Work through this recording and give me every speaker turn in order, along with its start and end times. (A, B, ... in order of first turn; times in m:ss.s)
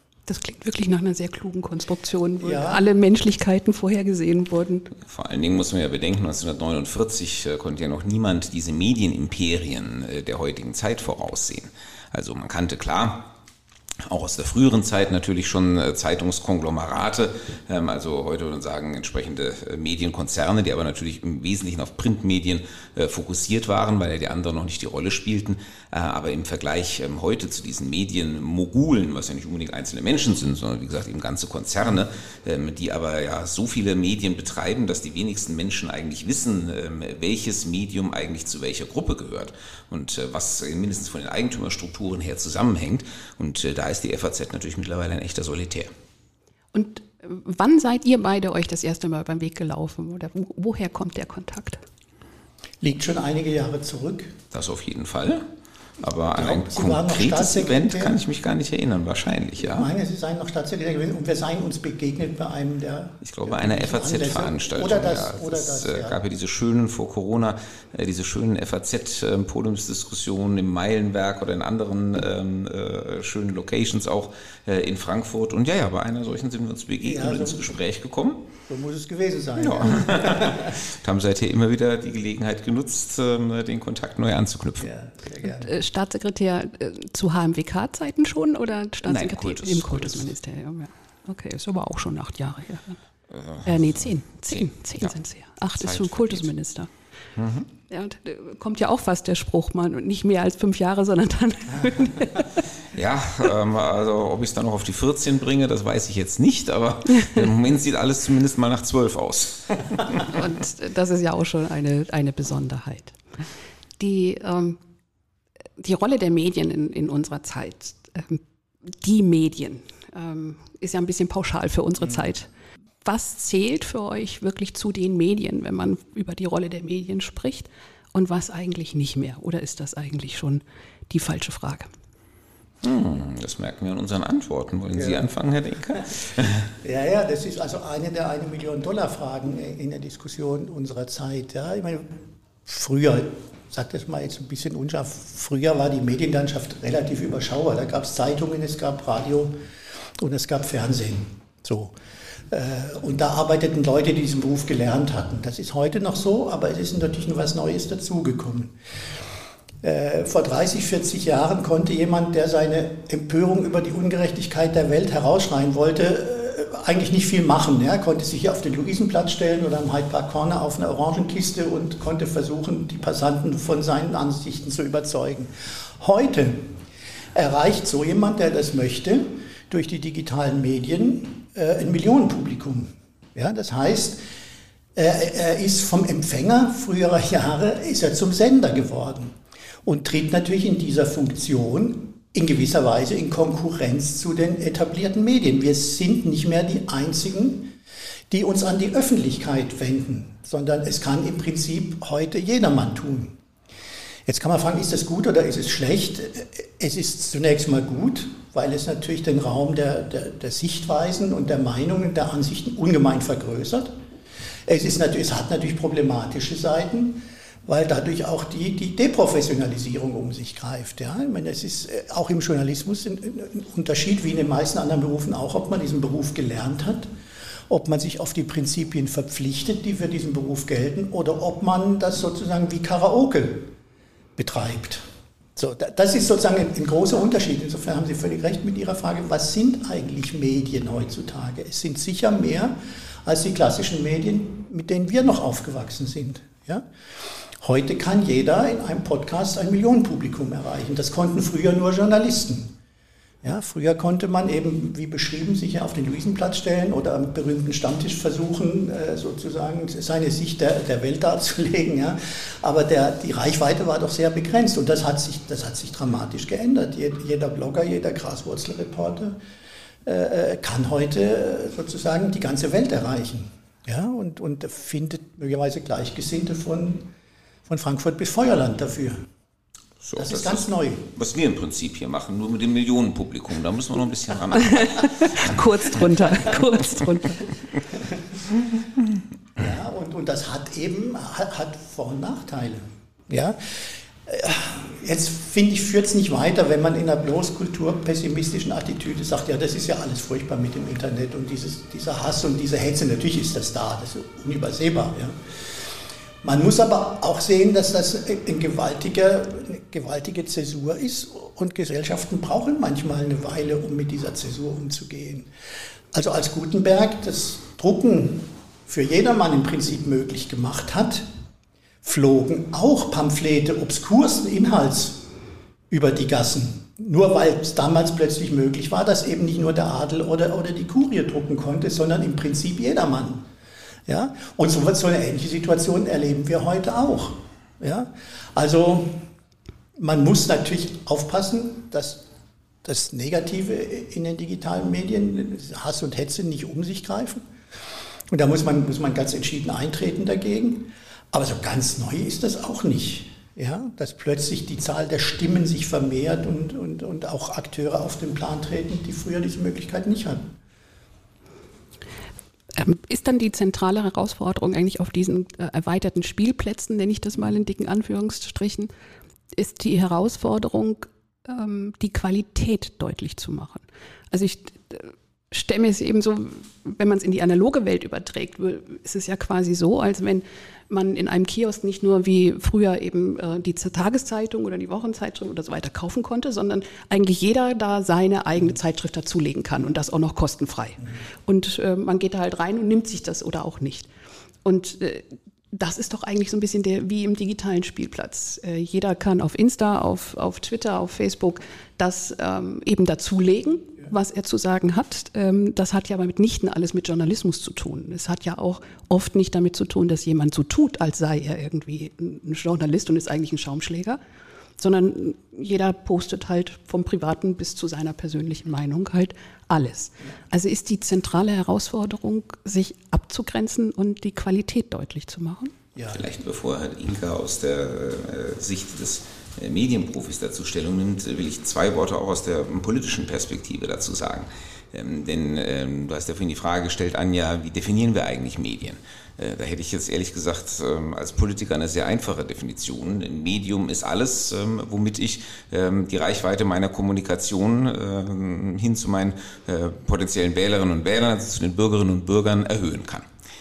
0:00.3-0:04.9 A
0:02.4-0:02.8 B
0:05.0-0:13.3 C
0:14.0-0:45.9 C
0:46.7-0:51.8 A
0:52.8-0:54.3 B
0:54.5-0:55.4 C
0:56.0-0:59.9 C
0:56.4-0:58.2 B
0:59.6-1:06.2 B
1:03.2-1:18.4 C
1:17.0-1:17.8 B
1:18.7-1:20.8 B
1:19.6-1:24.9 C
1:24.8-1:25.7 B
1:25.4-1:33.0 A
1:29.0-1:30.2 C
1:33.3-1:34.0 C
1:33.6-1:36.9 A
1:34.5-1:35.1 C
1:35.8-1:36.5 C
1:37.4-1:37.7 C
1:37.9-1:42.5 A
1:42.9-1:50.2 C
1:50.2-1:53.2 A
1:54.0-1:54.8 A
1:55.8-1:58.4 A
1:59.0-2:02.5 A
2:03.0-2:11.9 A
2:12.8-2:16.7 C
2:14.9-2:15.2 B
2:16.8-2:29.5 B
2:30.2-2:31.9 B
2:32.5-2:38.7 B
2:39.8-2:56.7 B
2:57.3-3:04.2 B
3:04.9-3:17.7 B
3:18.3-3:23.4 B
3:24.2-3:33.9 B
3:34.6-3:47.1 B
3:47.7-3:53.7 B
3:54.4-3:55.0 B
3:55.6-4:02.7 B
4:03.2-4:06.9 B
4:07.6-4:12.7 B
4:13.4-4:29.4 B
4:30.0-4:37.1 B
4:37.7-4:39.2 B
4:40.0-4:45.6 C
4:40.2-4:41.1 B
4:44.6-4:47.4 A
4:49.6-5:05.8 B
5:06.4-5:15.5 B
5:16.1-5:21.2 B
5:22.0-5:25.2 B
5:25.9-5:33.4 B
5:34.1-5:39.2 B
5:40.0-5:42.2 B
5:42.8-5:47.4 B
5:48.3-6:00.5 B
6:02.7-6:08.9 A
6:09.5-6:34.1 A
6:34.6-6:54.2 A
6:54.8-7:05.7 A
7:06.0-7:06.2 B
7:06.1-7:33.3 C